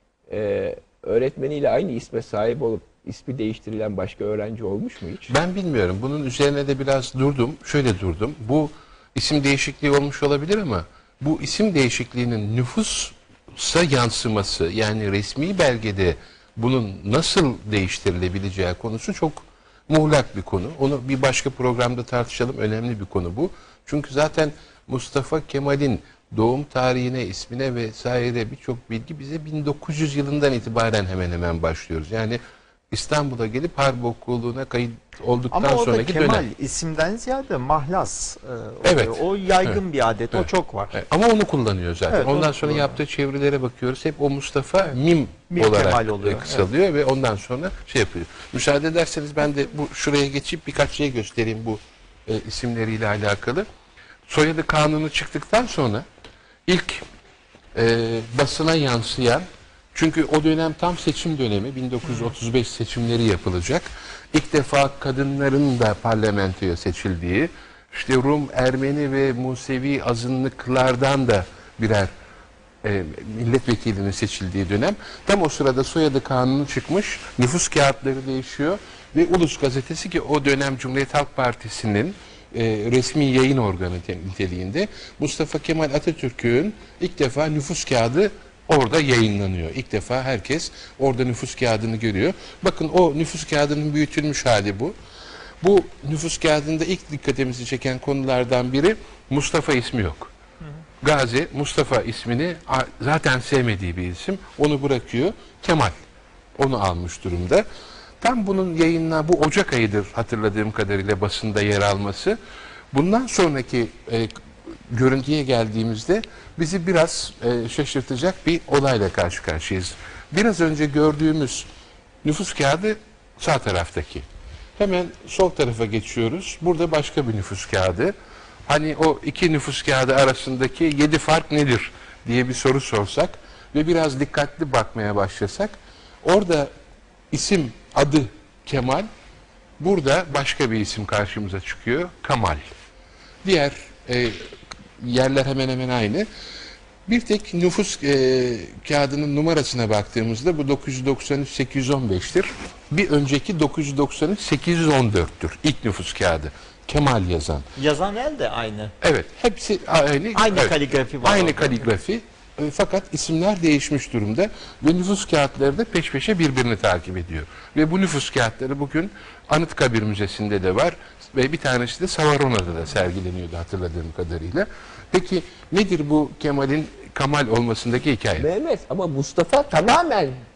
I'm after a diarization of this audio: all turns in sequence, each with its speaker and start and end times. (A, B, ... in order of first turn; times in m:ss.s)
0:00.3-0:05.3 A
0:05.3-0:32.4 B
0:32.9-0:36.5 B
0:35.5-0:41.0 C
0:38.8-0:39.8 B
0:40.3-0:53.7 B
0:42.1-0:43.0 C
0:45.5-0:46.7 C
0:54.3-0:56.0 B
0:56.7-0:57.0 B
0:57.8-1:12.1 B
1:12.8-1:35.0 B
1:35.6-1:40.3 B
1:41.0-1:46.0 B
1:46.6-1:47.6 B
1:48.2-1:52.4 B
1:52.9-1:54.3 B
1:54.9-2:01.7 B
2:02.2-2:04.2 B
2:04.8-2:08.1 B
2:08.7-2:16.7 B
2:17.3-2:19.1 B
2:19.8-2:22.7 B
2:23.4-2:24.4 B
2:25.0-2:26.3 B
2:27.1-2:37.7 B
2:37.8-2:38.9 C
2:39.0-2:58.5 B
2:40.4-2:41.8 C
2:58.4-3:00.4 A